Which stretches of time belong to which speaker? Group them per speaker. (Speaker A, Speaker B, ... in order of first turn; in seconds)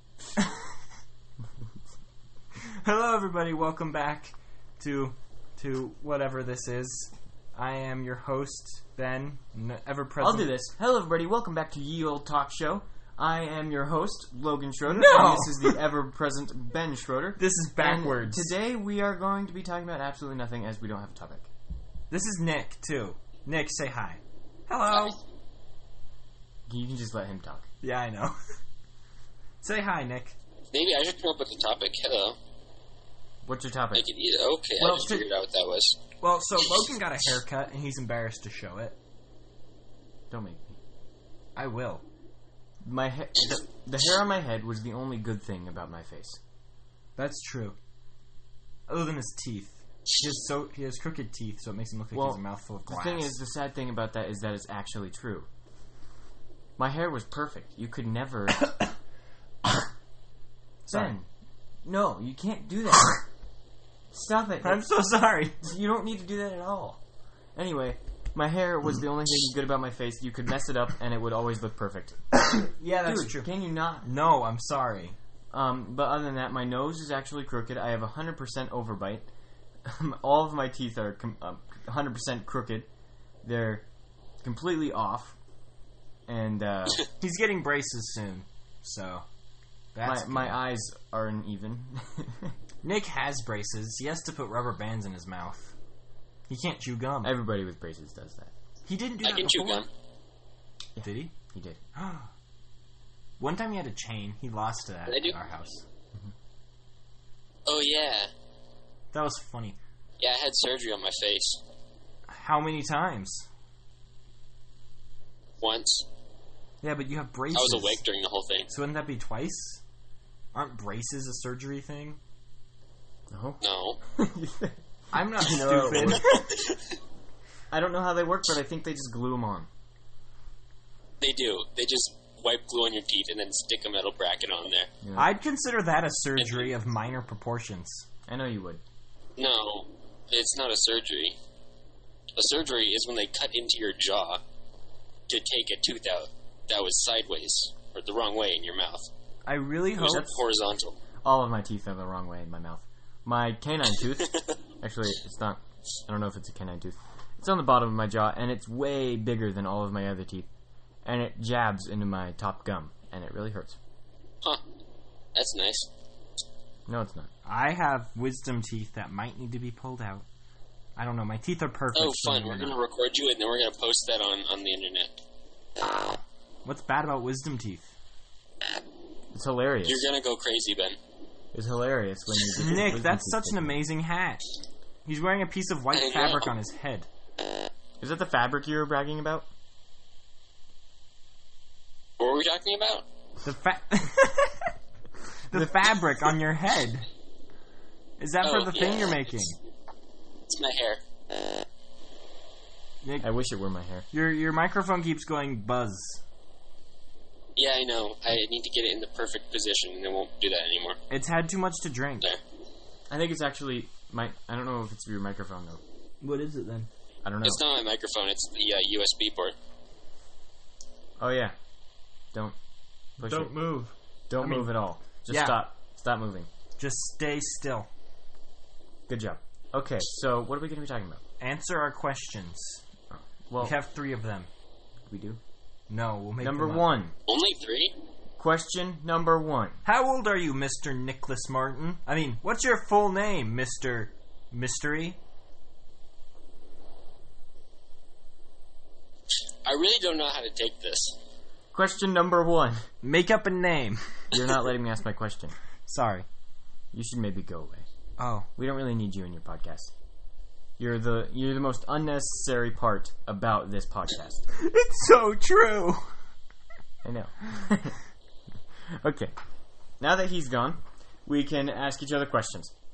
Speaker A: 0.3-0.8, 2.5-10.5, 14.8-15.8, 17.4-18.5, 22.1-25.2, 27.8-28.4, 29.6-30.4, 34.8-35.2, 36.2-39.0, 41.5-42.0, 47.2-47.8, 48.9-53.4, 60.9-61.1, 64.6-65.6, 72.5-75.2, 87.2-89.2, 89.9-90.6, 92.8-95.7, 96.5-97.3, 98.8-99.9, 101.0-101.3, 101.9-102.3, 103.4-105.8, 109.1-109.8, 112.3-113.5, 116.8-118.0, 118.7-119.8, 120.5-122.2, 125.1-126.5, 135.1-138.1, 149.4-150.3, 167.4-170.2, 170.9-172.8, 175.8-177.9, 182.5-184.4, 185.0-187.1, 193.4-194.7, 195.5-197.1, 198.2-199.6, 204.1-206.2, 211.1-212.3, 216.2-216.9, 223.2-224.7, 225.3-225.6, 226.8-227.9, 231.4-232.8, 233.6-234.5, 235.9-236.9, 239.8-245.2, 253.0-254.2, 255.9-256.2, 258.2-258.5, 264.5-266.1
Speaker B: 10.2-21.5, 26.7-27.7, 33.5-34.0, 40.3-40.8, 42.8-46.4, 52.1-55.5, 56.8-58.6, 60.9-61.3, 61.8-63.2, 64.1-64.8, 65.6-67.0, 67.5-72.2, 73.0-74.0, 75.5-79.3, 79.8-82.9, 83.4-83.8, 84.4-85.4, 86.3-87.1, 90.0-92.5, 97.2-98.5, 101.0-101.8, 123.3-123.6, 124.1-124.8, 125.3-126.4, 127.7-129.7, 135.0-135.3, 138.3-138.8, 151.2-160.5, 161.0-163.8, 166.9-167.3, 179.3-180.1, 181.5-183.8, 188.0-189.4, 203.2-204.1, 213.1-215.8, 217.2-217.6, 221.2-221.5, 223.2-223.5, 224.3-226.5, 229.1-231.2, 233.1-233.8, 235.1-235.4, 236.4-237.1, 238.4-239.8, 251.7-252.9, 254.3-255.5, 256.9-257.8, 258.6-259.9, 260.8-264.4, 267.0-268.0, 269.0-269.3, 270.0-272.7
Speaker C: 30.7-32.4, 33.9-36.0, 99.2-99.9, 105.1-105.4, 107.7-108.3, 110.2-111.6, 115.6-116.0, 117.5-118.7, 123.6-124.0, 126.2-126.8, 131.2-134.9, 136.4-136.7, 139.4-141.4, 142.4-144.4, 145.3-149.1, 150.0-151.0, 165.3-165.9, 171.9-175.2, 179.8-181.0, 185.9-186.5, 192.2-193.0, 198.4-199.3, 200.5-201.0, 207.6-211.0, 217.4-219.5, 237.3-237.9, 249.6-251.2